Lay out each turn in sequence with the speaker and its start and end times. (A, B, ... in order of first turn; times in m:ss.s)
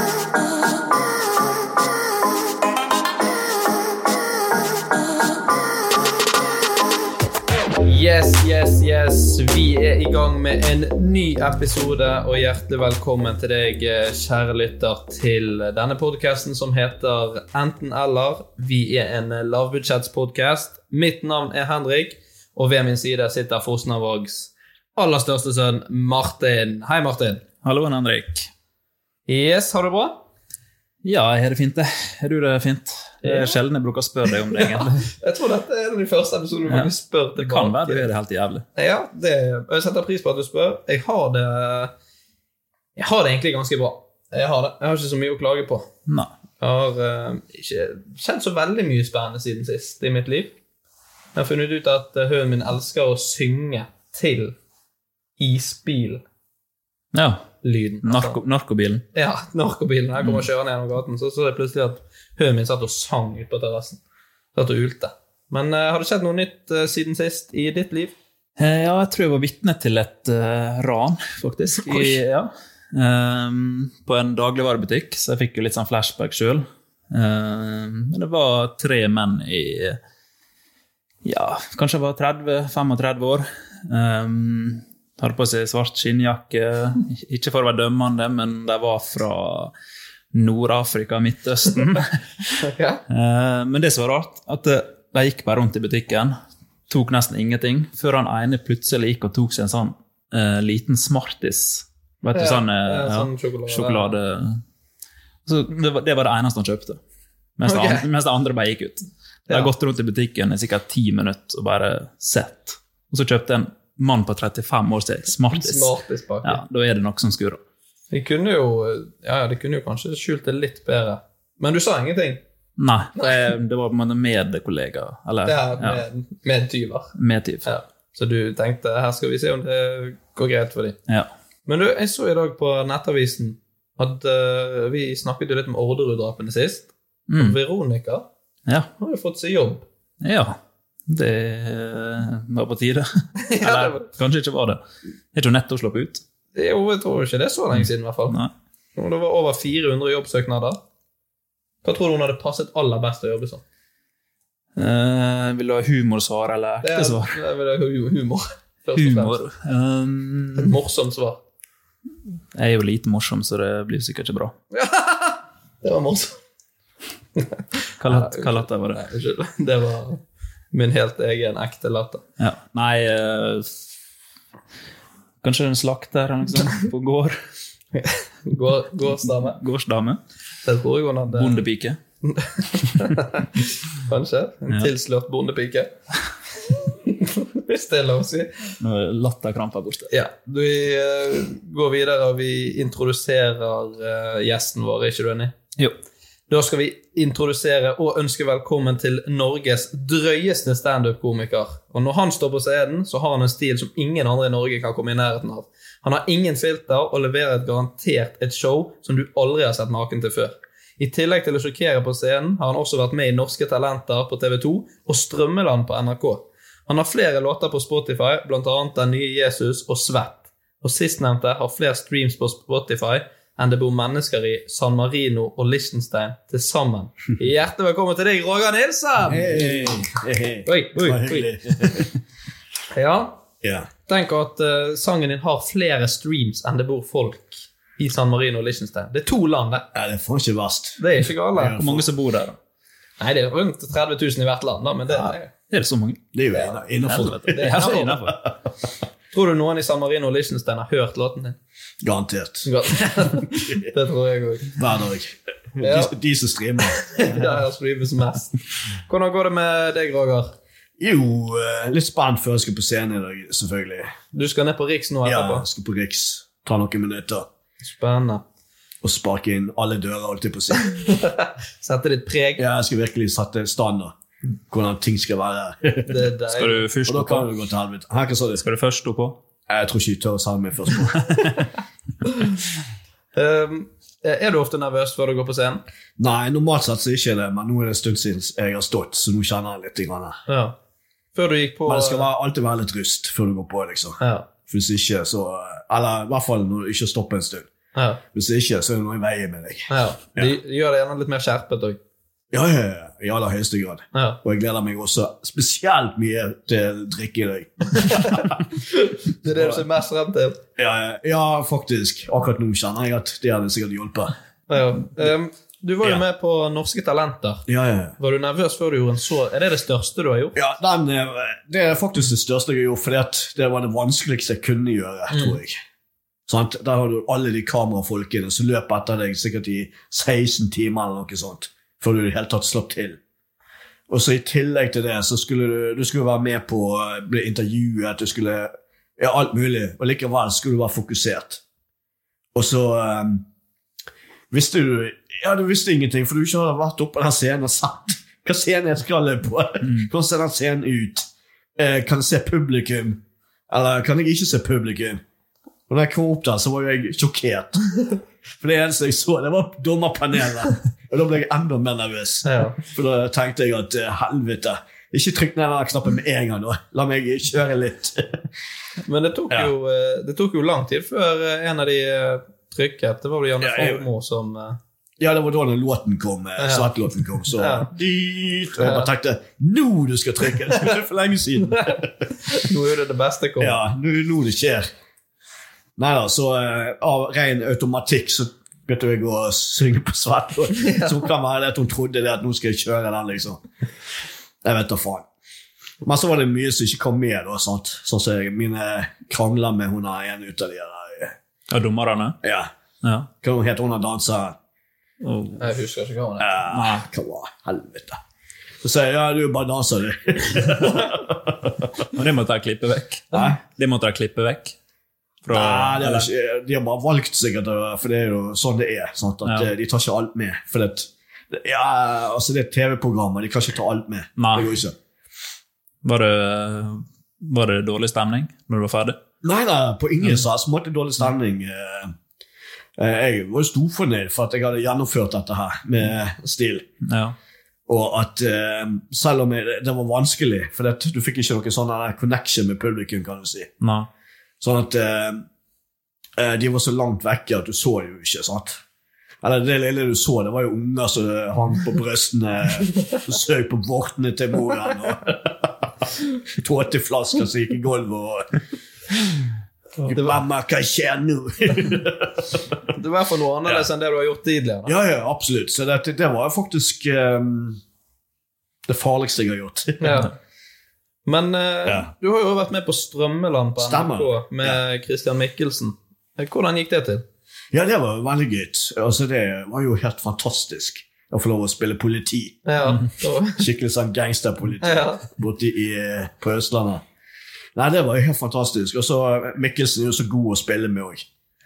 0:07.8-0:27.4 A
0:27.6-0:28.5 B
0:29.3-0:30.2 A
0:31.0-0:35.1 B
0:33.2-0:33.6 A
0:34.6-0:38.1 A
0:36.7-0:38.6 B
0:38.7-0:41.9 A
0:43.0-0:45.9 A
0:46.6-0:50.5 A
0:51.3-0:54.6 A
0:55.4-0:56.2 A
0:57.1-0:57.5 B
0:57.6-0:58.4 A
0:58.0-0:59.0 B
0:59.1-1:04.0 A
1:04.5-1:08.1 A
1:08.6-1:20.0 B
1:21.2-1:29.7 B
1:30.3-1:32.5 B
1:32.6-1:33.0 A
1:33.1-1:36.4 B
1:36.9-1:44.6 B
1:42.3-1:44.2 A
1:45.4-1:47.0 B
1:47.6-1:55.9 B
1:47.6-1:48.0 A
1:55.5-1:56.6 A
1:56.4-1:57.6 B
1:58.1-2:02.4 A
2:02.8-2:06.0 B
2:05.4-2:07.1 A
2:07.2-2:07.7 B
2:07.6-2:11.0 A
2:11.6-2:18.3 A
2:17.3-2:17.6 B
2:19.0-2:19.8 A
2:20.2-2:20.6 B
2:21.1-2:24.8 B
2:23.4-2:24.0 A
2:25.3-2:26.2 B
2:26.5-2:28.4 A
2:27.7-2:28.5 B
2:29.0-2:30.8 A
2:31.8-2:33.6 A
2:34.8-2:37.4 B
2:36.8-2:39.4 A
2:38.9-2:40.7 B
2:40.6-2:41.4 A
2:42.5-2:44.5 B
2:44.7-2:46.4 A
2:47.4-2:50.2 A
2:48.0-2:49.0 B
2:50.7-2:52.2 A
2:52.4-2:53.7 B
2:55.4-2:57.4 B
2:57.9-2:59.6 A
2:59.5-3:00.2 B
3:00.6-3:01.6 A
3:01.3-3:02.0 B
3:02.2-3:05.9 A
3:06.7-3:08.5 A
3:08.8-3:10.1 B
3:10.1-3:15.5 A
3:16.5-3:49.9 A
3:49.3-3:52.1 C
3:50.6-3:51.2 A
3:51.0-3:52.0 B
3:52.9-3:53.4 A
3:53.6-3:53.9 C
3:54.1-3:59.8 A
3:59.9-4:01.0 C
4:01.0-4:01.8 A
4:01.5-4:02.1 C
4:01.8-4:02.6 B
4:03.2-4:05.5 A
4:05.1-4:06.2 B
4:06.3-4:08.5 C
4:06.5-4:08.1 A
4:07.1-4:08.4 B
4:09.3-4:11.6 A
4:12.0-4:12.7 C
4:12.6-4:14.8 A
4:13.5-4:13.9 C
4:14.7-4:17.2 C
4:15.8-4:16.1 A
4:17.0-4:20.5 A
4:21.0-4:24.1 C
4:24.3-4:25.6 A
4:25.2-4:27.5 C
4:27.8-4:28.4 A
4:29.0-4:30.9 C
4:30.9-4:32.6 A
4:32.6-4:34.1 C
4:34.7-4:36.2 C
4:36.1-4:36.8 A
4:36.5-4:37.5 B
4:37.0-4:38.6 C
4:38.6-4:39.4 B
4:39.7-4:41.2 C
4:42.2-4:42.5 A
4:43.3-4:45.8 A
4:46.2-4:50.4 C
4:50.5-4:50.8 A
4:51.3-4:52.3 A
4:51.8-4:57.7 C
4:54.2-4:54.5 A
4:57.9-4:58.2 A
4:58.3-5:00.5 C
4:59.9-5:02.0 A
5:02.5-5:08.6 C
5:04.1-5:04.4 A
5:08.0-5:10.6 A
5:09.4-5:09.8 C
5:10.8-5:14.3 C
5:14.7-5:17.6 A
5:17.7-5:18.2 C
5:18.2-5:20.6 A
5:20.5-5:25.8 C
5:25.3-5:25.6 A
5:26.5-5:33.2 C
5:34.1-5:41.6 C
5:42.5-5:43.4 C
5:44.5-5:55.2 C
5:49.8-5:50.1 B
5:55.9-5:57.8 C
5:58.5-6:08.5 C
6:02.4-6:02.8 A
6:09.0-6:14.8 A
6:13.6-6:14.0 C
6:15.2-6:22.1 C
6:16.6-6:16.9 A
6:17.5-6:17.9 A
6:18.8-6:19.1 A
6:21.8-6:23.8 A
6:23.6-6:24.9 C
6:26.0-6:33.6 C
6:30.8-6:31.2 A
6:34.6-6:35.2 C
6:36.0-6:41.4 C
6:41.7-6:42.4 B
6:42.4-6:42.7 C
6:43.0-6:43.3 B
6:43.4-6:44.6 C
6:45.2-6:45.6 B
6:45.6-6:46.5 A
6:46.4-6:48.2 C
6:46.7-6:47.1 B
6:48.8-6:51.8 C
6:52.1-6:54.7 B
6:55.4-6:56.3 B
6:55.5-7:04.9 C
6:59.4-6:59.7 B
7:04.4-7:04.8 B
7:06.0-7:09.2 B
7:09.4-7:12.1 C
7:13.0-7:16.8 C
7:17.0-7:17.4 B
7:17.9-7:23.7 C
7:23.8-7:24.1 B
7:24.6-7:25.4 C
7:26.4-7:28.8 C
7:29.4-7:35.7 C
7:36.5-7:38.5 C
7:40.1-7:42.6 C
7:42.9-7:44.9 A
7:44.8-7:47.8 C
7:48.9-7:50.3 C
7:50.0-7:50.3 A
7:51.2-7:57.2 A
7:51.8-7:52.1 C
7:53.8-7:54.8 C
7:57.7-8:02.6 C
8:02.6-8:03.6 A
8:03.6-8:07.0 C
8:04.8-8:05.2 A
8:07.7-8:11.2 C